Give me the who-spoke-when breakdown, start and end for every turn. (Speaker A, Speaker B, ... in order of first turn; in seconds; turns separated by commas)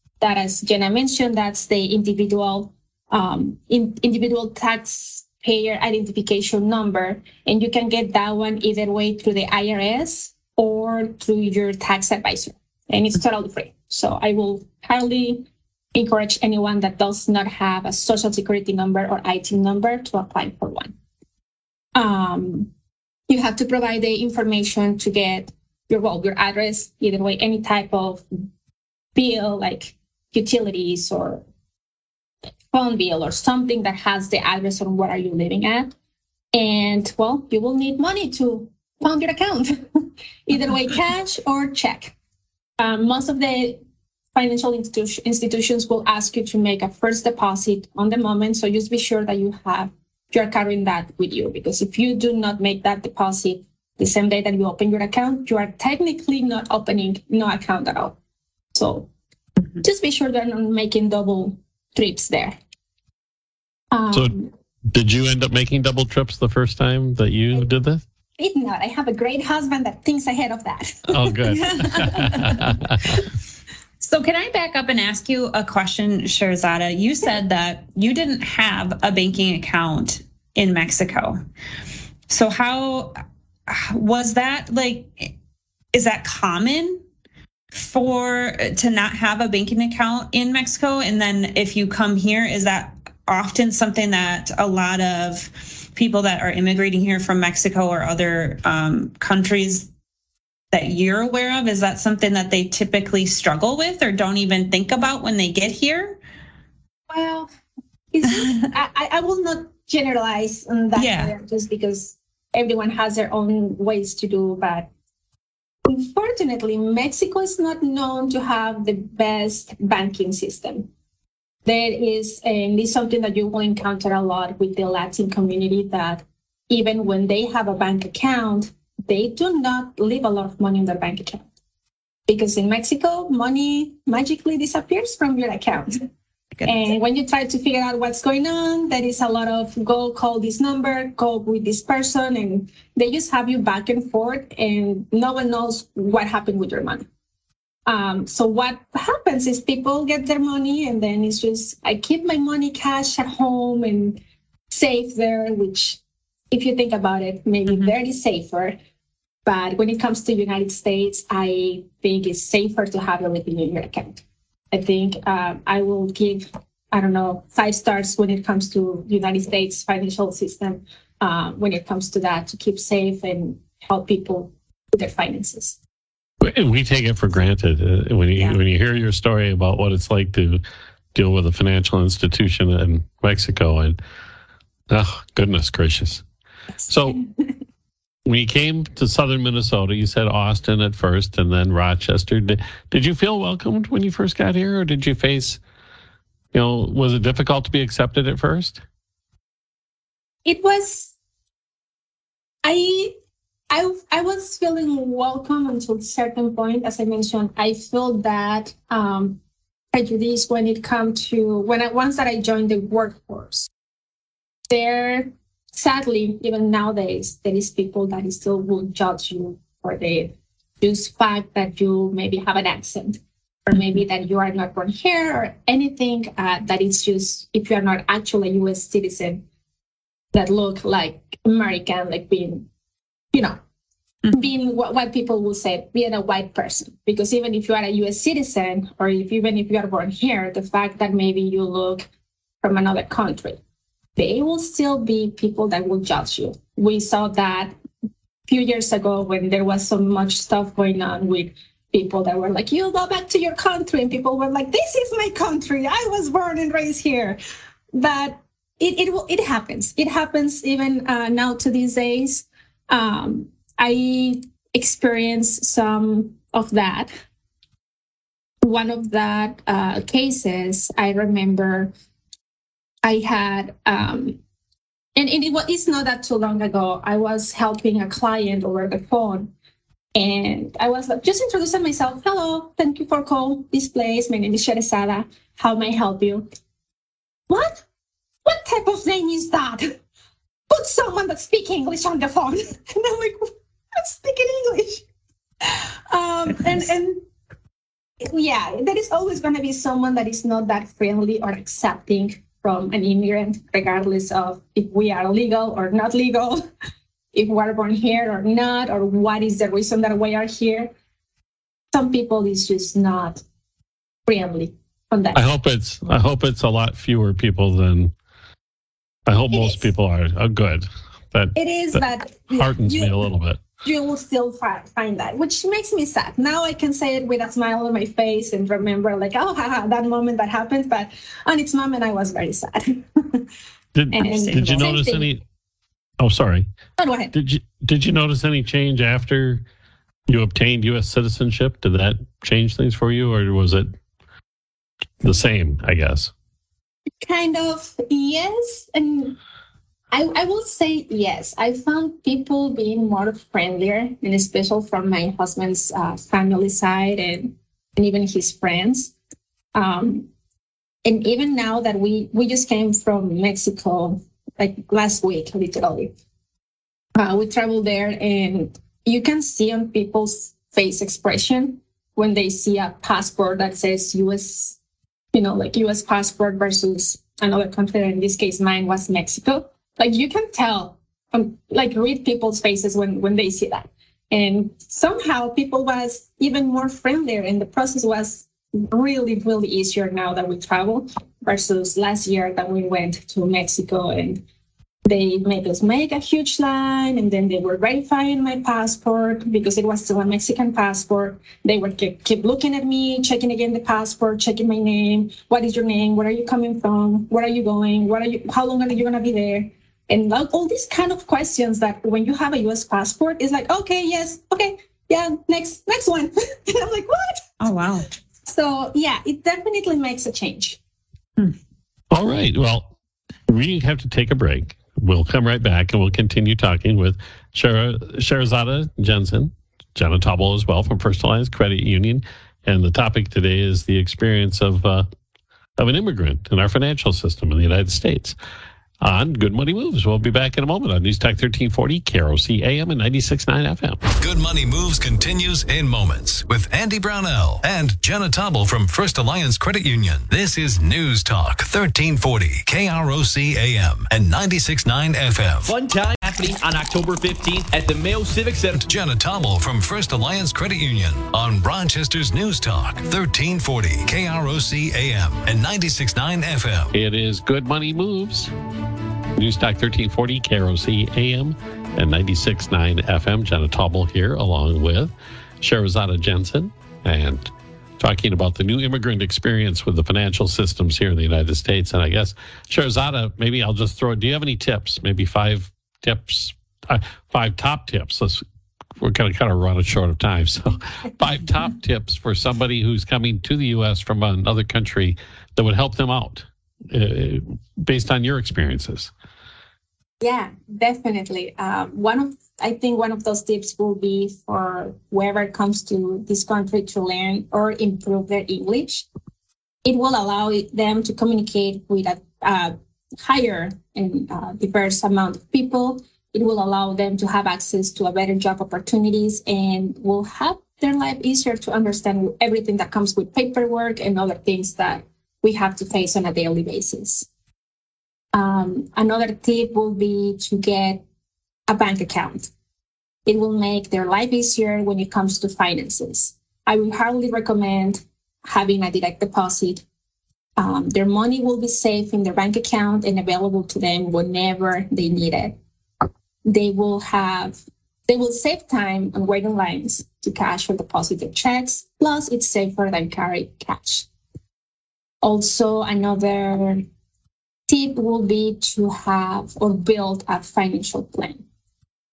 Speaker A: 0.2-20.9, Speaker A: 21.9-22.7, Speaker A: 23.3-28.2, Speaker A: 29.1-31.4, Speaker A: 32.7-35.9, Speaker A: 36.5-42.1, Speaker A: 42.8-43.8, Speaker A: 44.3-58.1, Speaker A: 58.7-59.1, Speaker A: 59.8-62.6, Speaker A: 63.9-64.5, Speaker B: 64.9-68.0, Speaker A: 68.4-72.5, Speaker B: 71.1-73.2, Speaker C: 71.6-72.6, Speaker C: 74.0-81.4, Speaker C: 82.3-83.1, Speaker C: 83.7-85.3, Speaker C: 85.9-87.0, Speaker C: 87.7-99.9, Speaker C: 100.7-106.2, Speaker A: 107.1-107.5, Speaker A: 108.1-114.9, Speaker C: 111.0-111.3, Speaker A: 115.8-120.9, Speaker A: 121.6-131.4, Speaker A: 132.3-136.1, Speaker A: 136.6-147.1, Speaker A: 147.9-156.0, Speaker A: 156.5-158.7, Speaker A: 159.4-164.2, Speaker A: 164.7-175.8, Speaker B: 176.4-180.6, Speaker B: 181.1-184.0, Speaker B: 184.9-186.2, Speaker B: 186.9-187.3, Speaker B: 188.2-195.6, Speaker B: 196.5-198.8, Speaker A: 200.4-201.1, Speaker A: 202.6-203.1, Speaker A: 203.7-209.4, Speaker A: 209.9-213.7, Speaker A: 214.7-229.4, Speaker A: 230.3-232.7, Speaker A: 233.3-233.6, Speaker A: 234.3-242.1, Speaker A: 242.6-243.6, Speaker A: 244.2-247.7, Speaker A: 248.5-257.4, Speaker A: 257.9-267.1, Speaker A: 268.6-271.9, Speaker A: 273.0-274.4, Speaker A: 275.1-279.5, Speaker A: 280.1-286.5, Speaker A: 287.5-287.8, Speaker A: 288.4-289.9, Speaker A: 290.7-295.1, Speaker A: 295.6-297.2, Speaker A: 298.2-306.6, Speaker A: 307.3-310.9, Speaker A: 311.9-313.4, Speaker A: 314.3-315.4, Speaker B: 315.3-318.1, Speaker B: 319.3-323.6, Speaker A: 319.5-319.9, Speaker A: 321.5-323.3, Speaker A: 323.8-333.4, Speaker B: 333.9-335.4, Speaker A: 334.1-335.3, Speaker C: 334.2-334.9, Speaker B: 336.2-336.6, Speaker A: 337.0-337.3, Speaker B: 337.3-339.6, Speaker B: 340.3-343.9, Speaker B: 345.2-346.3, Speaker A: 347.2-349.4, Speaker A: 350.1-359.1, Speaker A: 359.7-360.3, Speaker A: 361.0-366.1, Speaker A: 367.1-374.8, Speaker A: 375.3-394.4, Speaker A: 395.0-417.4, Speaker C: 417.6-418.1, Speaker A: 418.4-420.8, Speaker B: 422.1-422.9, Speaker B: 423.5-435.1, Speaker B: 435.8-438.4, Speaker B: 439.0-444.0, Speaker D: 444.1-455.7, Speaker E: 455.7-458.8, Speaker D: 458.7-466.9, Speaker B: 466.9-468.5, Speaker B: 469.4-488.4, Speaker B: 489.0-499.1, Speaker A: 500.2-509.1, Speaker A: 509.8-527.3, Speaker A: 528.3-531.0, Speaker A: 531.7-532.5, Speaker A: 533.2-539.8, Speaker A: 540.6-545.6, Speaker A: 546.5-554.1, Speaker A: 555.2-556.8, Speaker A: 557.7-561.4